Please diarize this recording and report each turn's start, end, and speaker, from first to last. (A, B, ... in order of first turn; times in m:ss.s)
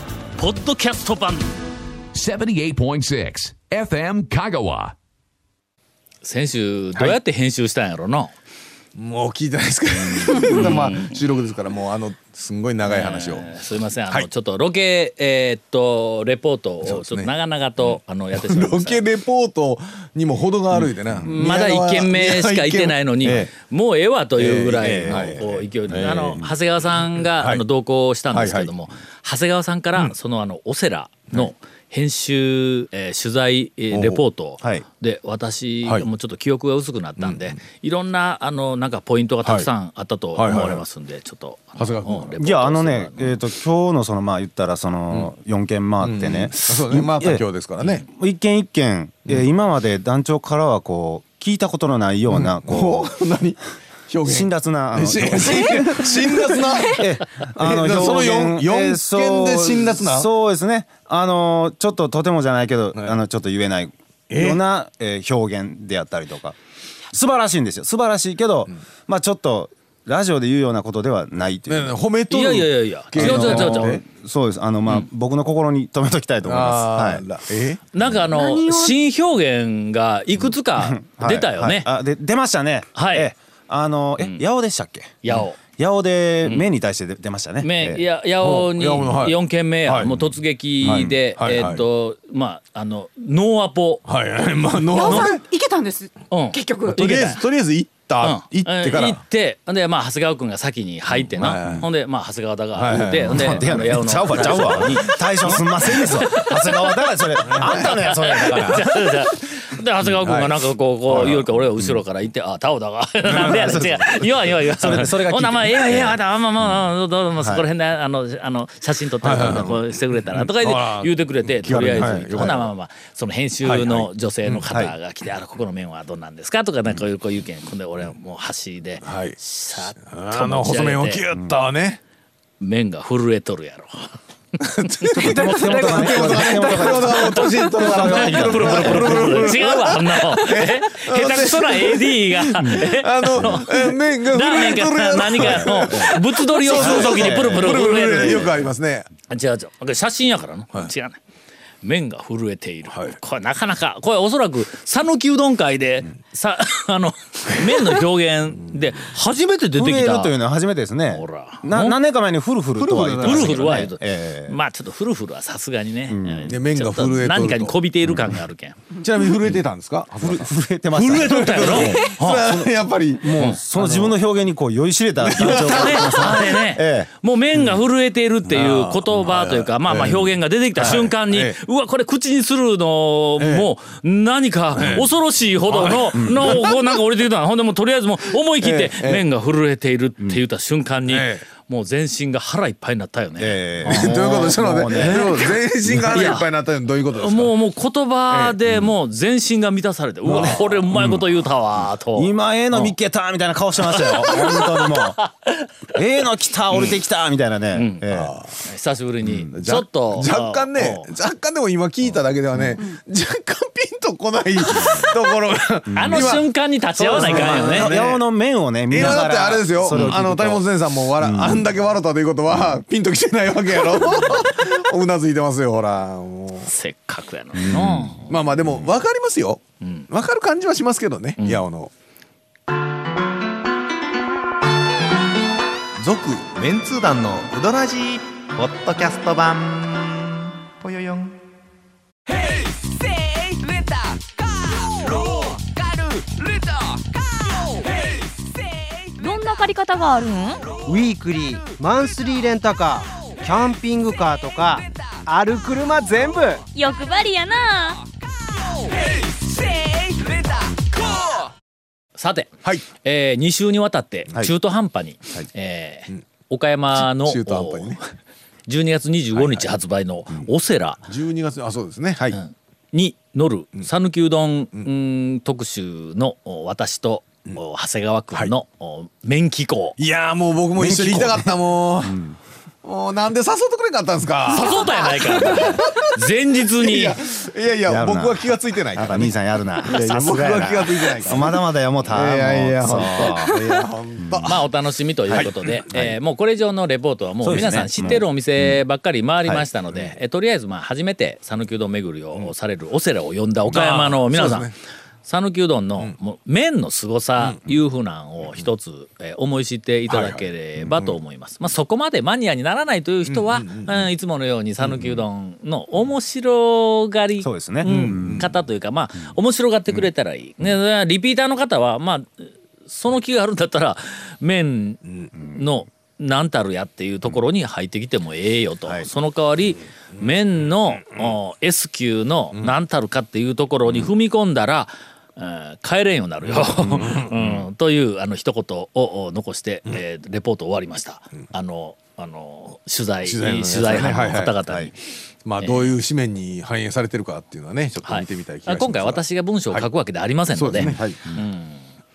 0:00.4-0:01.5 A
0:02.1-0:05.0 B
0:06.2-0:08.3 A
0:09.0-0:13.5 C
0:10.2-0:11.2 A
0:12.8-0:19.0 A
0:16.8-0:17.3 C
0:17.9-0:23.5 C
0:20.7-0:43.4 A
0:24.4-0:26.4 C
0:24.8-0:26.5 D
0:27.3-0:27.6 C
0:28.3-0:28.7 C
0:33.9-0:34.2 C
0:37.2-0:37.6 C
0:39.4-0:39.7 C
0:40.4-0:40.8 C
0:41.8-0:42.3 C
0:42.4-0:47.4 D
0:46.0-0:48.0 C
0:48.0-0:53.1 D
0:52.3-1:00.3 C
0:54.2-1:06.6 D
1:04.3-1:04.6 C
1:07.1-1:11.9 D
1:11.7-1:14.0 C
1:12.3-1:14.0 A
1:13.1-1:17.2 D
1:16.4-1:17.8 C
1:17.9-1:21.9 A
1:18.3-1:19.0 E
1:20.8-1:25.2 D
1:23.0-1:23.3 A
1:25.2-1:25.6 A
1:25.8-1:28.0 D
1:27.6-1:34.0 A
1:28.4-1:30.2 C
1:30.8-1:31.8 C
1:30.8-1:31.1 D
1:34.1-1:35.5 C
1:34.9-1:37.0 E
1:36.3-1:37.4 A
1:36.9-1:39.2 C
1:38.2-2:11.2 A
1:41.4-1:41.9 C
1:41.5-1:41.8 D
1:42.7-1:44.7 C
1:43.2-1:49.2 D
1:47.4-1:48.8 C
1:50.1-1:51.5 C
1:53.2-1:56.8 D
1:53.3-1:53.6 C
1:57.4-1:57.6 D
1:59.2-1:59.8 C
2:00.3-2:02.7 C
2:03.6-2:04.7 C
2:09.0-2:09.4 C
2:10.0-2:12.0 C
2:12.6-2:14.2 A
2:14.6-2:29.1 C
2:15.1-2:28.7 A
2:15.2-2:19.6 D
2:23.4-2:23.6 D
2:25.4-2:28.6 D
2:29.3-2:31.2 A
2:31.8-2:40.4 A
2:32.9-2:33.2 C
2:39.7-2:44.6 D
2:41.1-2:42.0 A
2:42.8-2:43.6 C
2:43.2-2:48.8 A
2:46.1-2:46.6 D
2:46.5-2:47.8 C
2:48.1-2:48.4 D
2:49.0-2:50.5 C
2:50.2-2:57.1 D
2:50.9-2:52.5 A
2:51.0-2:54.2 C
2:55.2-2:56.5 C
2:55.4-3:14.2 A
2:58.5-3:01.6 C
3:03.4-3:03.7 C
3:04.8-3:05.1 C
3:04.8-3:05.0 D
3:05.7-3:06.8 C
3:06.1-3:06.6 D
3:08.6-3:09.2 C
3:11.1-3:11.4 C
3:13.4-3:15.4 D
3:13.8-3:17.6 C
3:14.9-3:15.5 A
3:16.1-3:16.5 A
3:17.2-3:23.0 A
3:18.3-3:18.6 C
3:20.2-3:21.5 D
3:20.2-3:20.8 C
3:22.1-3:25.2 D
3:23.8-3:25.7 A
3:26.0-3:28.3 D
3:27.7-3:28.1 A
3:28.1-3:28.5 C
3:28.6-3:31.1 A
3:29.3-3:38.2 C
3:34.7-3:35.1 D
3:35.9-3:36.4 D
3:35.9-3:38.0 A
3:37.0-3:40.6 D
3:38.9-3:46.7 C
3:39.9-3:40.2 A
3:41.2-3:41.7 D
3:46.7-3:48.4 A
3:47.6-3:48.2 D
3:48.3-3:51.9 C
3:49.8-3:50.1 A
3:51.4-3:51.7 A
3:56.0-4:01.4 F
3:56.0-3:56.7 C
4:09.2-4:10.6 G
4:10.8-4:16.6 H
4:16.8-4:18.0 G
4:22.2-4:28.0 A
4:27.0-4:28.0 C
4:28.7-4:31.0 A
4:29.3-4:29.7 C
4:31.1-4:32.4 C
4:32.3-4:40.0 A
4:40.0-4:42.2 C
4:40.8-4:41.5 D
4:42.0-4:42.4 D
4:42.8-4:54.7 C
4:44.4-4:47.2 A
4:47.9-4:53.6 D
4:54.2-4:54.6 D
4:54.4-5:04.7 A
4:55.3-4:56.2 D
4:57.4-4:58.8 D
5:03.7-5:04.7 C
5:05.2-5:45.0 A
5:07.4-5:07.7 C
5:10.1-5:11.2 C
5:13.3-5:14.1 C
5:17.4-5:18.5 D
5:17.8-5:18.5 C
5:36.5-5:37.3 C
5:37.0-5:37.7 D
5:43.2-5:44.6 C
5:45.5-5:49.9 C
5:45.6-5:46.0 A
5:48.0-5:51.8 A
5:50.5-5:51.2 C
5:50.7-5:51.4 D